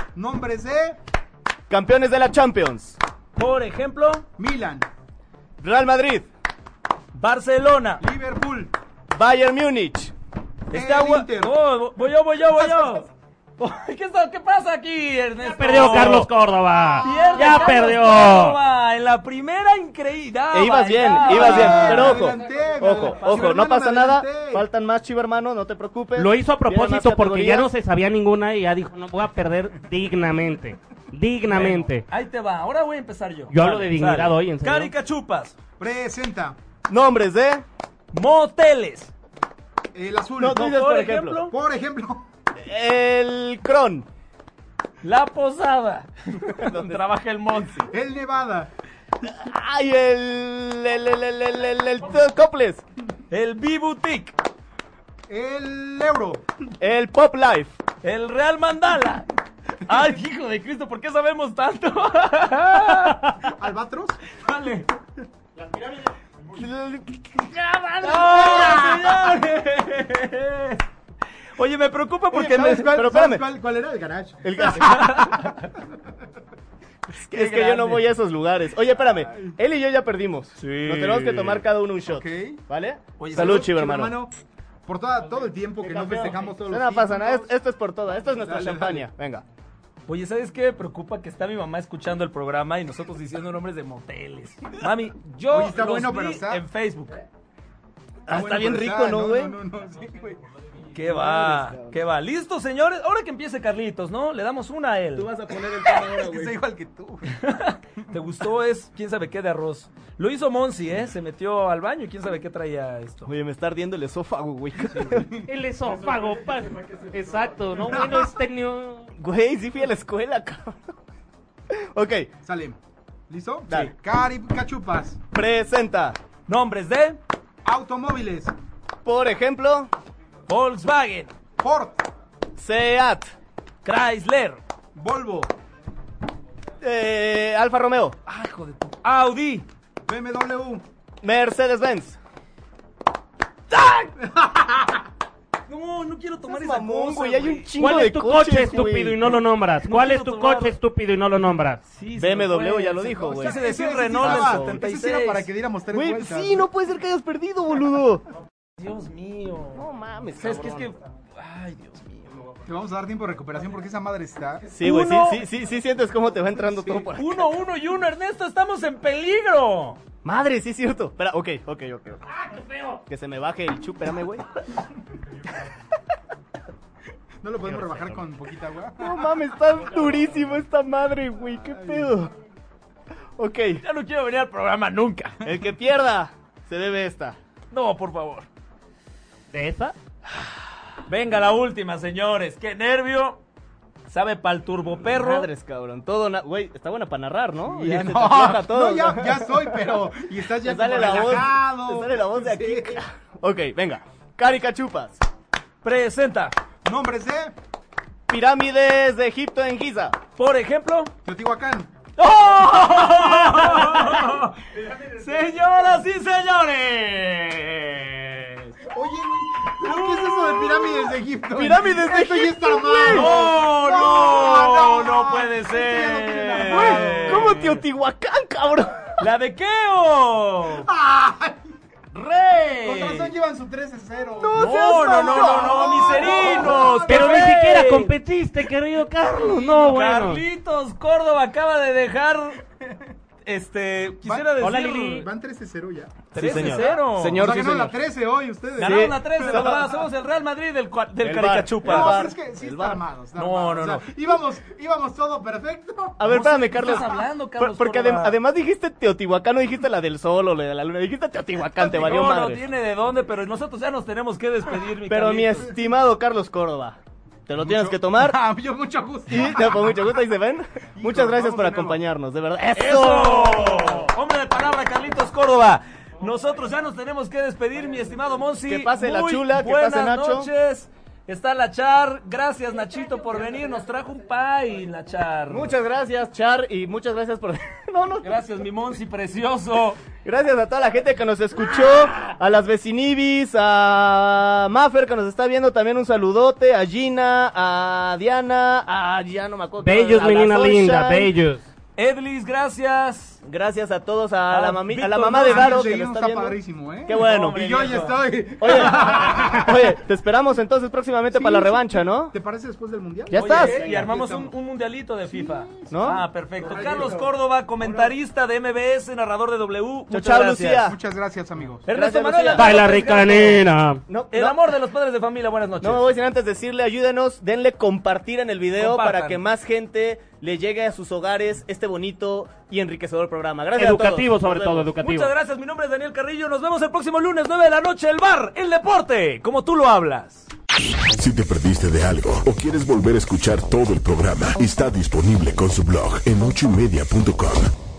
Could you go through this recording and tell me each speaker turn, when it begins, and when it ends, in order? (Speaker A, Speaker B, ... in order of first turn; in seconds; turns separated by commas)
Speaker A: 0.1-1.0, Speaker B: 1.7-3.0, Speaker C: 3.4-4.2, Speaker A: 4.4-4.8, Speaker B: 5.6-6.3, Speaker C: 7.1-8.0, Speaker A: 8.0-8.7, Speaker B: 9.1-10.1, Speaker A: 10.7-11.5, Speaker C: 10.7-13.1, Speaker A: 12.5-13.1, Speaker C: 13.6-16.3, Speaker D: 15.4-18.6, Speaker C: 17.0-22.3, Speaker A: 17.1-17.4, Speaker B: 20.5-27.7, Speaker A: 21.2-24.6, Speaker D: 26.1-32.0, Speaker C: 31.5-35.5, Speaker D: 33.5-34.9, Speaker A: 35.8-36.5, Speaker B: 36.9-37.6, Speaker C: 38.1-39.1, Speaker A: 39.9-40.7, Speaker B: 40.4-41.4, Speaker C: 40.5-41.5, Speaker A: 41.5-42.3, Speaker B: 42.5-44.0, Speaker C: 45.0-47.9, Speaker B: 46.6-47.0, Speaker A: 47.9-48.7, Speaker B: 49.2-52.8, Speaker C: 53.3-54.3, Speaker A: 55.3-56.4, Speaker B: 56.8-57.8, Speaker C: 58.0-59.3, Speaker C: 59.9-63.5, Speaker A: 63.5-64.2, Speaker C: 64.3-64.9, Speaker B: 66.5-69.0, Speaker C: 68.0-70.8, Speaker C: 71.5-72.9, Speaker A: 72.3-75.5, Speaker B: 72.6-73.4, Speaker B: 74.4-75.3, Speaker C: 74.8-75.6, Speaker B: 77.2-84.2, Speaker A: 77.3-78.0, Speaker C: 80.6-81.6, Speaker A: 82.0-82.6, Speaker C: 83.2-83.7, Speaker A: 83.3-84.3, Speaker A: 84.8-87.5, Speaker B: 85.8-89.4, Speaker A: 88.3-89.1, Speaker C: 90.1-97.2, Speaker A: 95.5-96.6, Speaker B: 98.3-99.6, Speaker A: 98.3-100.4, Speaker C: 100.9-105.3, Speaker B: 101.0-102.0, Speaker B: 105.1-106.5, Speaker A: 105.8-107.3, Speaker C: 107.2-113.3, Speaker B: 113.2-115.3, Speaker A: 114.9-115.4, Speaker D: 115.5-119.1, Speaker B: 119.2-120.9, Speaker B: 121.7-122.3, Speaker A: 122.4-122.8, Speaker A: 123.3-125.2, Speaker B: 123.7-123.9, Speaker B: 125.3-126.2, Speaker C: 126.5-127.2, Speaker A: 127.6-128.5, Speaker B: 129.0-129.9, Speaker C: 130.5-131.3, Speaker A: 131.6-132.0, Speaker B: 132.6-133.3, Speaker C: 133.8-134.6, Speaker A: 134.9-135.5, Speaker B: 136.8-138.2, Speaker C: 138.2-139.7, Speaker A: 140.1-140.8, Speaker B: 141.2-142.2, Speaker C: 143.7-144.1, Speaker A: 144.2-145.0, Speaker C: 145.7-147.7, Speaker B: 146.5-149.4, Speaker D: 147.8-151.8, Speaker C: 149.8-150.7, Speaker C: 151.8-155.5, Speaker B: 152.2-153.6, Speaker A: 153.1-156.6, Speaker B: 154.2-154.8, Speaker B: 155.9-158.2, Speaker C: 158.8-162.3, Speaker B: 159.7-160.9, Speaker A: 162.7-164.7, Speaker B: 164.7-167.5, Speaker C: 164.8-165.4, Speaker C: 167.1-170.0, Speaker B: 170.2-172.2, Speaker B: 173.1-174.4, Speaker A: 177.4-179.2, Speaker B: 177.6-178.2, Speaker B: 179.0-182.3, Speaker B: 183.4-183.8, Speaker C: 183.8-185.4, Speaker B: 185.4-187.4, Speaker C: 187.7-188.5, Speaker D: 189.5-189.9, Speaker C: 191.1-193.4, Speaker C: 194.1-195.5, Speaker B: 195.0-199.9, Speaker A: 197.7-203.0, Speaker B: 200.6-205.2, Speaker C: 205.8-206.5, Speaker A: 206.8-207.5, Speaker B: 208.3-210.2, Speaker C: 210.3-211.1, Speaker A: 211.2-211.9, Speaker C: 212.2-218.7, Speaker A: 218.8-227.5, Speaker B: 220.5-223.5, Speaker C: 223.1-227.8, Speaker B: 226.3-229.2, Speaker C: 229.2-230.9, Speaker A: 230.8-231.6, Speaker C: 232.1-233.3, Speaker A: 232.8-237.1, Speaker B: 234.4-237.4, Speaker C: 234.5-238.1, Speaker D: 237.1-240.4, Speaker C: 239.5-242.6, Speaker C: 243.4-245.3, Speaker A: 244.2-244.6, Speaker D: 244.6-245.3, Speaker A: 245.2-249.8, Speaker C: 246.3-247.5, Speaker B: 246.3-247.9, Speaker C: 248.8-252.2, Speaker B: 248.8-249.9, Speaker B: 251.2-253.0, Speaker A: 251.8-256.2, Speaker C: 253.4-254.1, Speaker B: 256.2-262.6, Speaker C: 256.2-258.4, Speaker C: 261.8-265.7, Speaker B: 265.1-268.4, Speaker A: 267.6-270.0, Speaker B: 269.3-274.0, Speaker A: 271.0-272.0, Speaker C: 272.7-285.7, Speaker B: 278.6-280.5, Speaker B: 285.5-288.4, Speaker C: 288.2-290.0, Speaker B: 290.2-301.3, Speaker D: 299.8-301.6, Speaker C: 301.9-303.4, Speaker B: 303.4-312.3, Speaker C: 304.5-305.9, Speaker A: 305.3-309.9, Speaker C: 307.1-308.1, Speaker C: 308.6-309.2, Speaker A: 311.3-314.5, Speaker B: 313.3-314.1, Speaker D: 313.3-313.7, Speaker C: 313.3-320.9, Speaker A: 315.3-315.9, Speaker B: 315.9-317.1, Speaker A: 316.6-318.1, Speaker B: 320.1-321.0, Speaker A: 320.8-321.8, Speaker C: 321.8-323.6, Speaker B: 321.9-323.0, Speaker D: 322.5-324.0, Speaker B: 324.1-324.7, Speaker C: 324.3-326.1, Speaker B: 325.8-334.9, Speaker C: 328.8-329.4, Speaker D: 333.8-335.3, Speaker C: 335.0-340.5, Speaker E: 341.1-347.7